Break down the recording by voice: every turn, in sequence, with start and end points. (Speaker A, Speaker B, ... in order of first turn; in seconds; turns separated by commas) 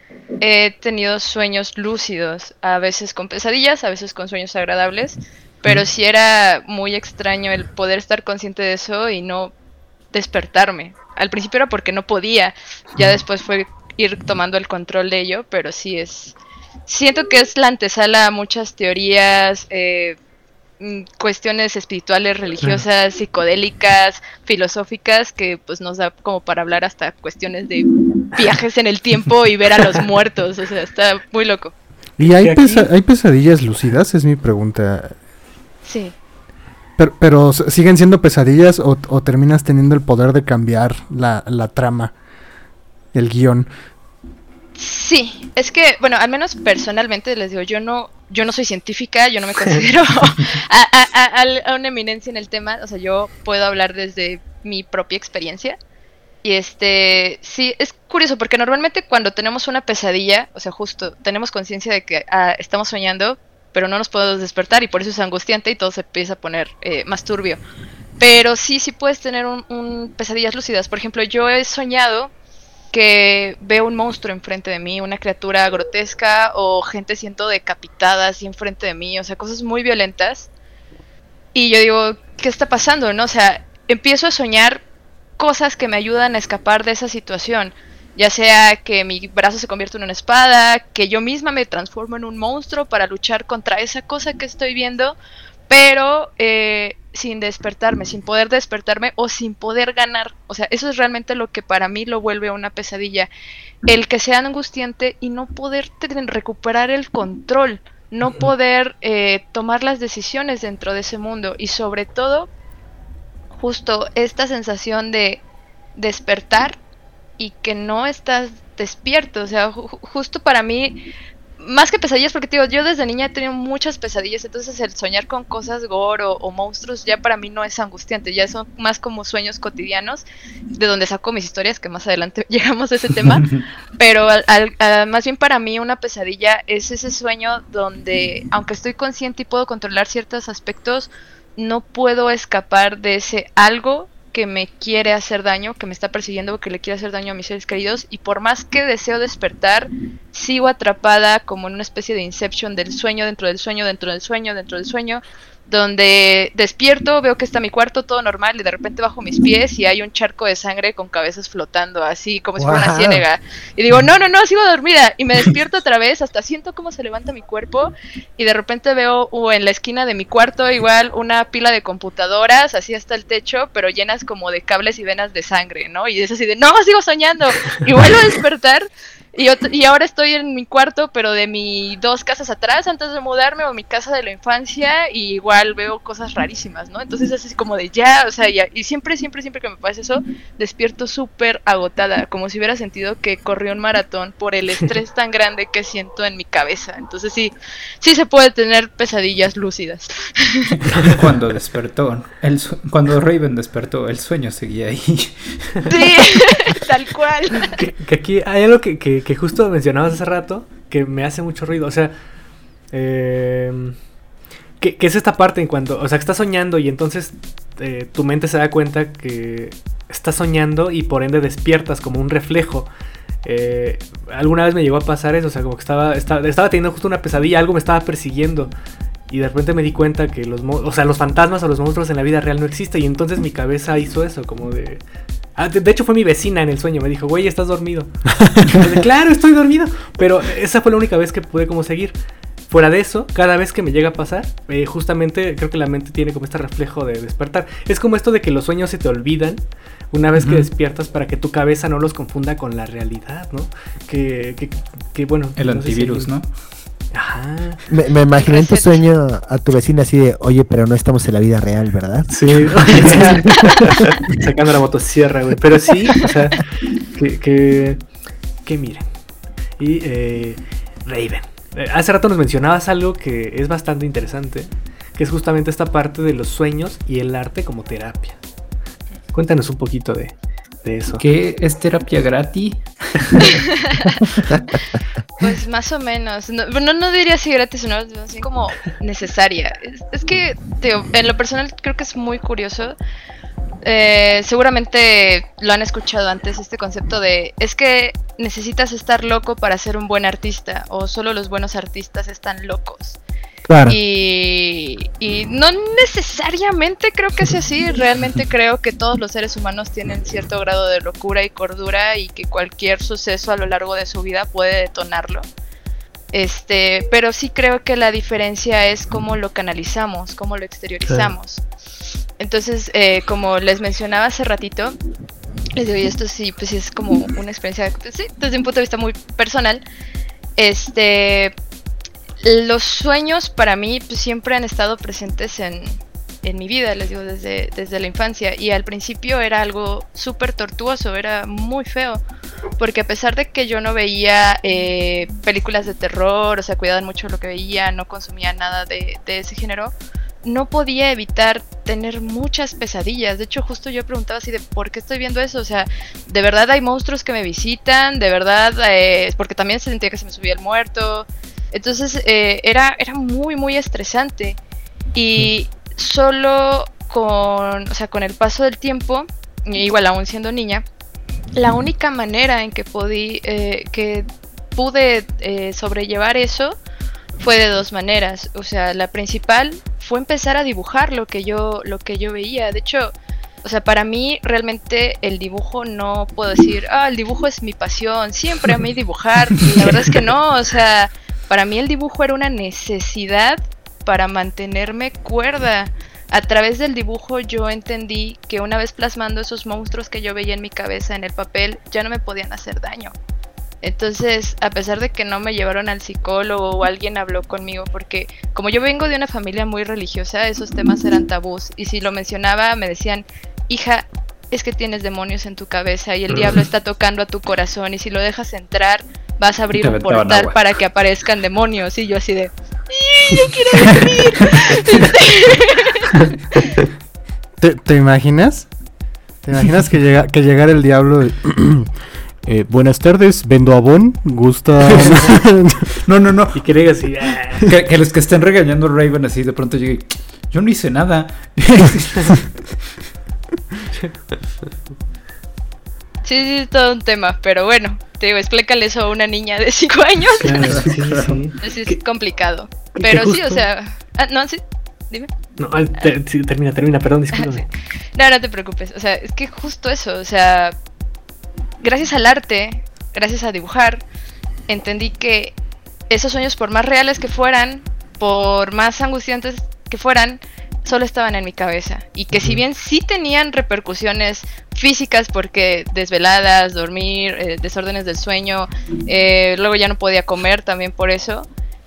Speaker A: 0.4-9.5, Speaker A: 10.1-16.3, Speaker A: 16.9-20.2, Speaker A: 20.8-31.7, Speaker B: 32.2-35.2, Speaker C: 32.2-32.9, Speaker A: 35.8-36.1, Speaker B: 37.0-42.1, Speaker B: 43.1-43.7, Speaker A: 44.8-55.8, Speaker A: 56.4-67.6, Speaker A: 68.2-72.3, Speaker A: 72.9-80.5, Speaker A: 81.5-84.8, Speaker A: 85.4-95.2, Speaker A: 95.7-103.3, Speaker A: 103.8-112.5, Speaker A: 113.5-115.4, Speaker A: 116.0-116.8, Speaker A: 117.4-121.0, Speaker A: 121.6-133.4, Speaker D: 133.3-133.6, Speaker A: 134.0-200.7, Speaker E: 162.6-163.2, Speaker D: 200.9-205.9, Speaker C: 200.9-201.2, Speaker A: 205.8-207.8, Speaker C: 207.7-212.1, Speaker C: 212.9-213.9, Speaker C: 214.8-222.9, Speaker C: 223.4-228.7, Speaker C: 229.3-235.0, Speaker C: 235.6-242.1, Speaker B: 238.4-238.8, Speaker C: 242.7-256.3, Speaker D: 250.3-250.7, Speaker D: 255.6-256.5, Speaker C: 257.1-257.8, Speaker E: 257.9-263.8, Speaker A: 258.4-259.0, Speaker C: 262.3-268.0, Speaker C: 268.6-269.1, Speaker C: 269.8-278.4, Speaker C: 279.3-281.2, Speaker D: 281.2-283.6, Speaker A: 283.4-284.1, Speaker A: 285.4-292.9, Speaker A: 293.8-303.2, Speaker E: 303.7-304.0, Speaker A: 303.9-315.4, Speaker A: 316.3-321.6, Speaker C: 321.1-321.3, Speaker A: 322.4-324.9, Speaker A: 325.8-329.8, Speaker A: 330.6-331.5, Speaker A: 332.4-342.2, Speaker A: 342.8-364.6, Speaker A: 365.1-370.8, Speaker A: 371.6-376.8, Speaker A: 377.4-403.1, Speaker A: 403.8-426.1, Speaker D: 419.8-420.6, Speaker D: 423.9-424.9, Speaker B: 427.6-428.7, Speaker B: 429.4-431.9, Speaker B: 432.4-436.0, Speaker C: 435.0-435.2, Speaker D: 436.0-436.6, Speaker C: 436.5-437.7, Speaker D: 437.6-442.6, Speaker A: 446.2-450.9, Speaker C: 450.4-451.9, Speaker D: 450.7-451.4, Speaker A: 451.6-455.3, Speaker C: 452.9-453.6, Speaker C: 455.6-457.7, Speaker A: 457.4-457.6, Speaker A: 458.1-460.8, Speaker A: 461.8-464.0, Speaker A: 464.7-465.5, Speaker A: 466.1-481.5, Speaker C: 472.3-472.6